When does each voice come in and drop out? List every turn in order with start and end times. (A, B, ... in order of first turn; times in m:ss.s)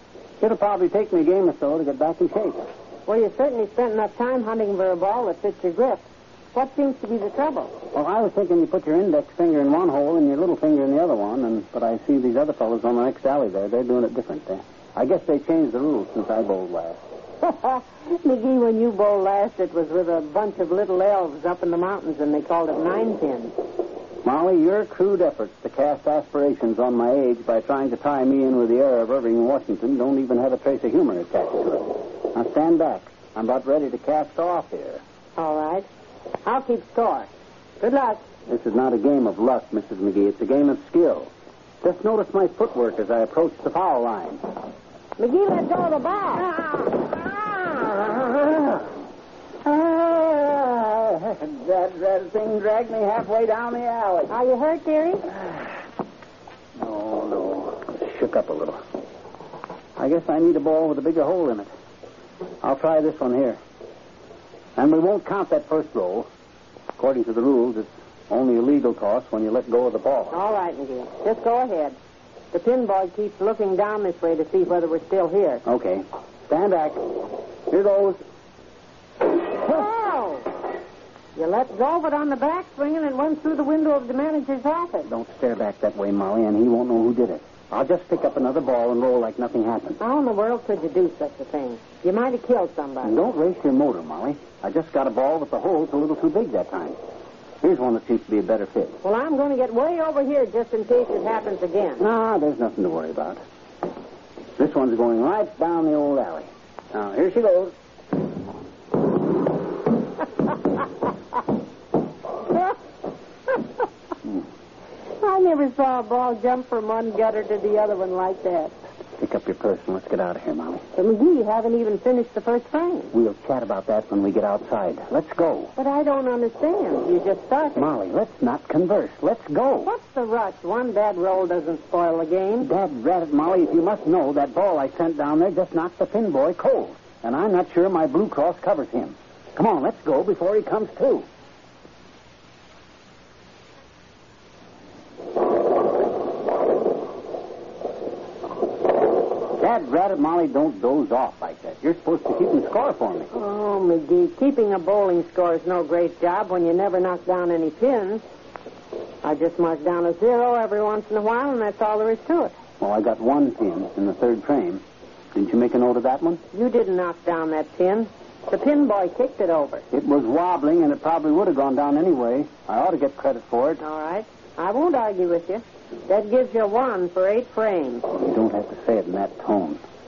0:00.4-0:02.6 A
0:03.1-0:07.8 B
0:07.9-0:17.0 A
0:17.4-0:23.6 B
0:24.2-0:35.0 A
0:35.4-0:35.9 B
0:36.4-0:38.2 B
0:38.5-0:41.3 A
0:41.8-0:44.4 A
0:45.2-0:46.6 B
0:46.7-0:48.9 A
0:49.6-0:54.3 A
0:54.3-0:55.3 B
0:56.8-0:58.8 A
1:00.0-1:01.7 A
1:02.6-1:03.6 A
1:04.8-1:06.3 A
1:07.0-1:10.4 A
1:10.3-1:12.0 B
1:12.5-1:15.6 B
1:15.6-1:18.2 A
1:19.6-1:20.5 B
1:21.4-1:25.1 B
1:25.1-1:30.0 A
1:30.0-1:33.2 B
1:33.0-1:37.0 A
1:37.6-1:39.0 A
1:39.0-1:42.0 B
1:42.0-1:43.4 A
1:44.6-1:47.7 A
1:55.2-1:58.8 B
1:59.2-2:00.8 A
2:00.9-2:03.1 B
2:03.1-2:05.7 A
2:05.8-2:07.9 B
2:07.8-2:09.9 A
2:09.8-2:12.7 B
2:12.6-2:21.3 A
2:29.6-2:33.3 A
2:33.3-2:38.2 B
2:39.2-2:42.5 B
2:42.8-2:46.4 A
2:46.5-2:49.9 B
2:49.9-2:53.8 A
2:53.8-2:58.0 B
2:58.1-2:59.8 A